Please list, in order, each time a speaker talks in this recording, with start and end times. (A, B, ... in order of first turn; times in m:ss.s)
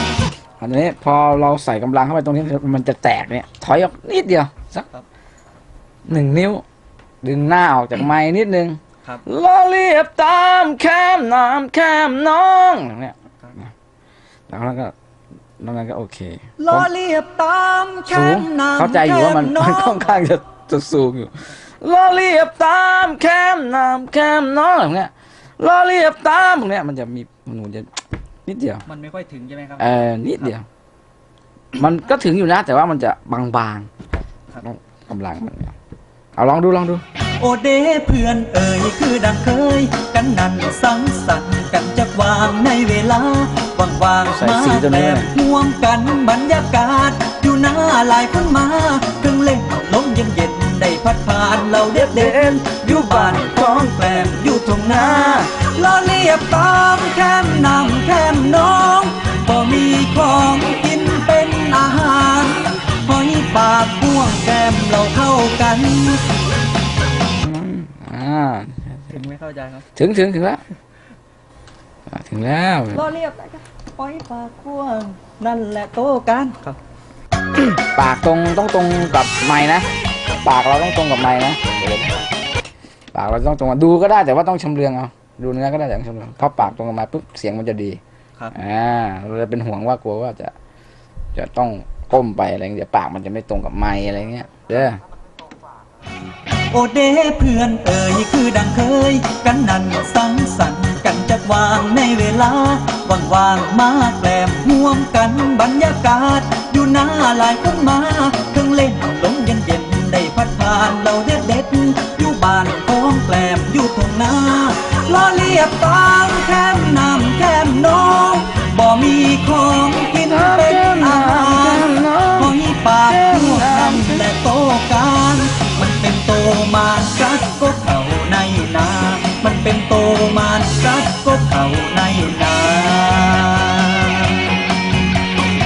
0:00.6-0:04.9 A
0:06.1-0:06.6 A
0:07.2-0:13.7 A
0:14.5-0:14.9 A
0:15.6-0:16.9 A
0:16.6-0:20.1 B
0:18.1-0:28.8 A
0:28.9-0:30.1 B
0:29.8-0:30.6 A
0:31.7-0:33.9 A
0:34.6-0:35.7 A
0:36.4-0:37.0 A
0:37.4-1:06.2 B
0:44.3-0:45.3 A
0:51.9-0:55.5 A
1:07.3-1:09.2 A
1:09.1-1:09.8 B
1:09.9-1:10.6 A
1:12.1-1:13.1 A
1:12.9-1:16.8 B
1:17.6-1:19.9 A
1:20.4-1:22.3 A
1:23.1-1:28.0 A
1:28.5-1:30.5 A
1:31.3-1:35.0 A
1:36.7-2:14.8 B
2:00.2-2:02.5 A
2:03.1-2:04.3 A